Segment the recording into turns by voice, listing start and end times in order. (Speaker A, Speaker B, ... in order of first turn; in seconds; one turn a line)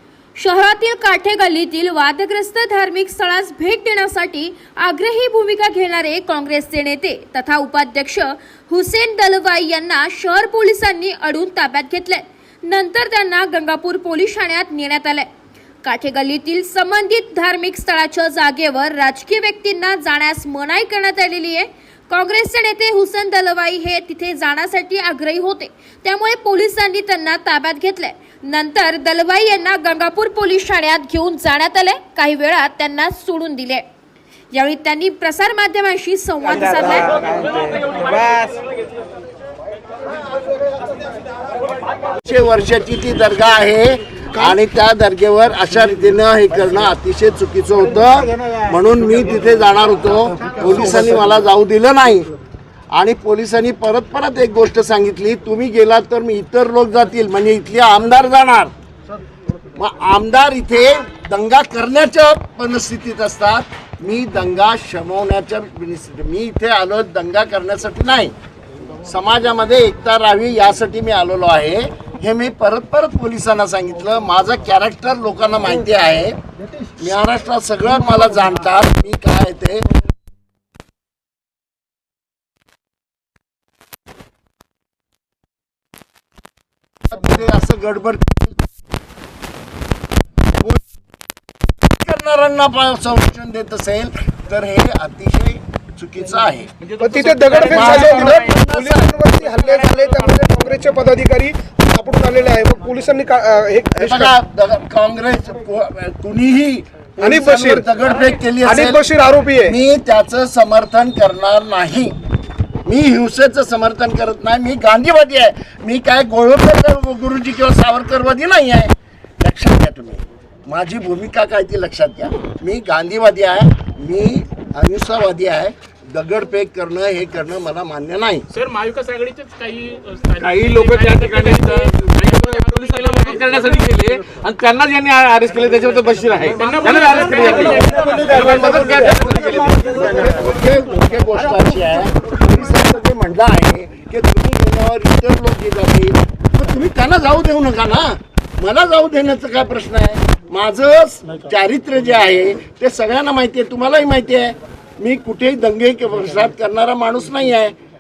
Speaker A: 0.4-15.3
Speaker A: 15.8-33.8
Speaker A: 34.5-37.3
Speaker B: 37.8-38.5
Speaker C: 42.2-52.3
Speaker C: 52.9-58.7
Speaker C: 59.8-68.3
Speaker C: 69.0-76.4
Speaker C: 77.0-79.9
Speaker C: 87.1-88.6
Speaker C: 92.0-96.7
Speaker D: 96.8-100.4
Speaker E: 97.0-104.3
Speaker C: 97.6-99.1
Speaker C: 104.0-109.0
Speaker E: 107.2-107.9
Speaker E: 108.6-109.8
Speaker C: 109.7-112.2
Speaker C: 112.8-128.5
Speaker D: 128.5-133.9
Speaker B: 130.4-140.3
Speaker D: 136.5-139.2
Speaker C: 138.4-157.8